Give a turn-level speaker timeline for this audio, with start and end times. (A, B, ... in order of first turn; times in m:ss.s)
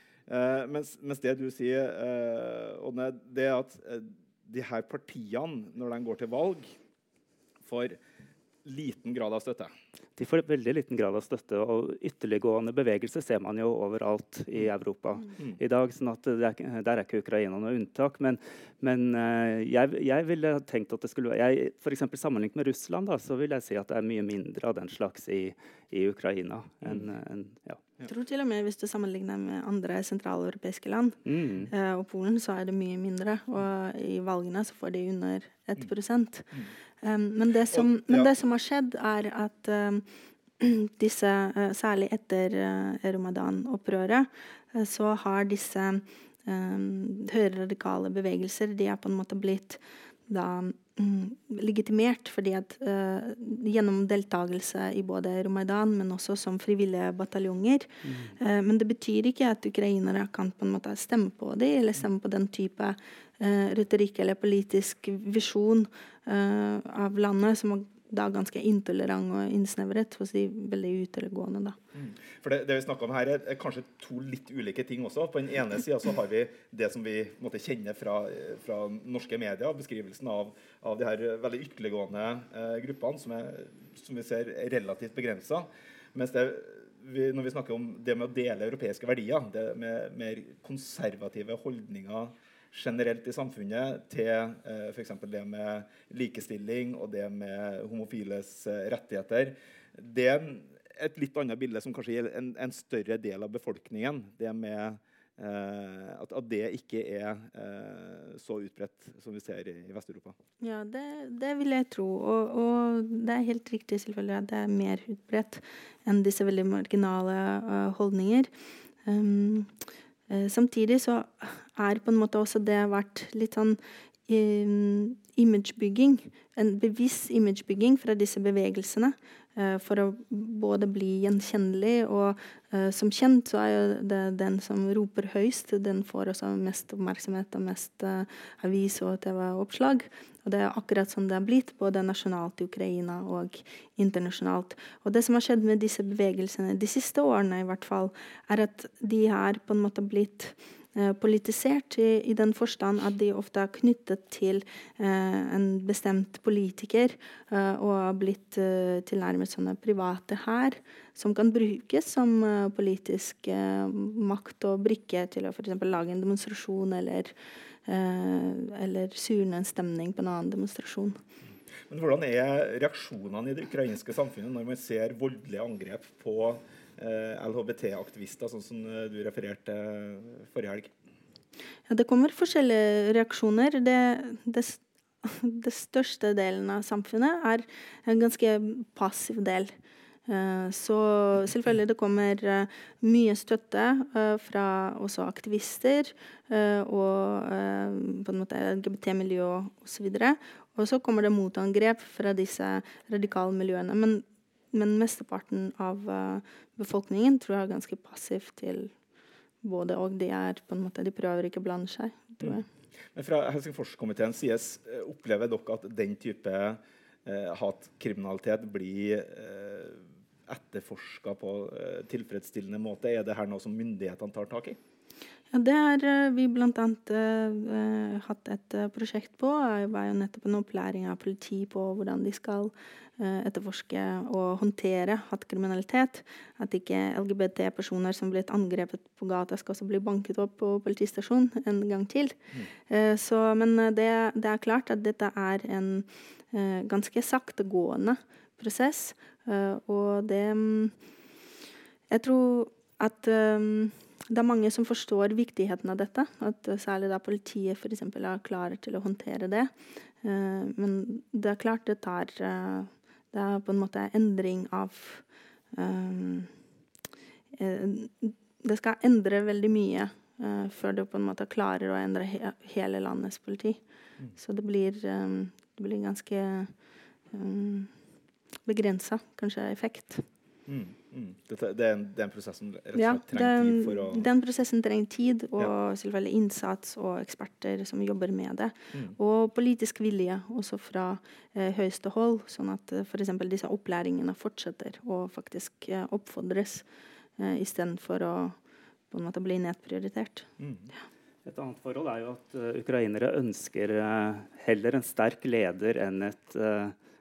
0:00.3-0:06.7 A
0:07.6-0:08.0 A
0:08.6-0:09.7 A
0:10.2-0:27.8 B
0:28.1-0:31.2 C
0:31.2-0:31.7 B
0:31.7-0:40.0 C
0:37.7-0:38.3 A
0:40.6-1:11.8 C
0:58.0-0:58.3 B
1:11.9-1:50.4 A
1:50.6-1:58.5 C
1:59.0-1:59.7 C
2:00.3-2:47.3 C
2:47.8-2:51.2 C
2:51.9-3:00.9 A
3:01.9-3:09.7 C
3:10.2-3:28.9 C
3:29.6-3:32.6 C
3:33.1-3:44.8 A
3:45.5-4:11.0 C
4:12.1-4:19.7 C
4:20.2-4:26.5 C
4:27.5-4:33.8 C
4:34.4-4:36.7 C
4:37.3-4:37.9 C
4:38.6-4:40.2 C
4:40.7-4:44.3 A
4:42.9-4:56.8 C
4:57.4-4:58.6 C
4:59.1-5:00.5 C
5:00.6-5:00.9 A
5:01.4-5:06.9 B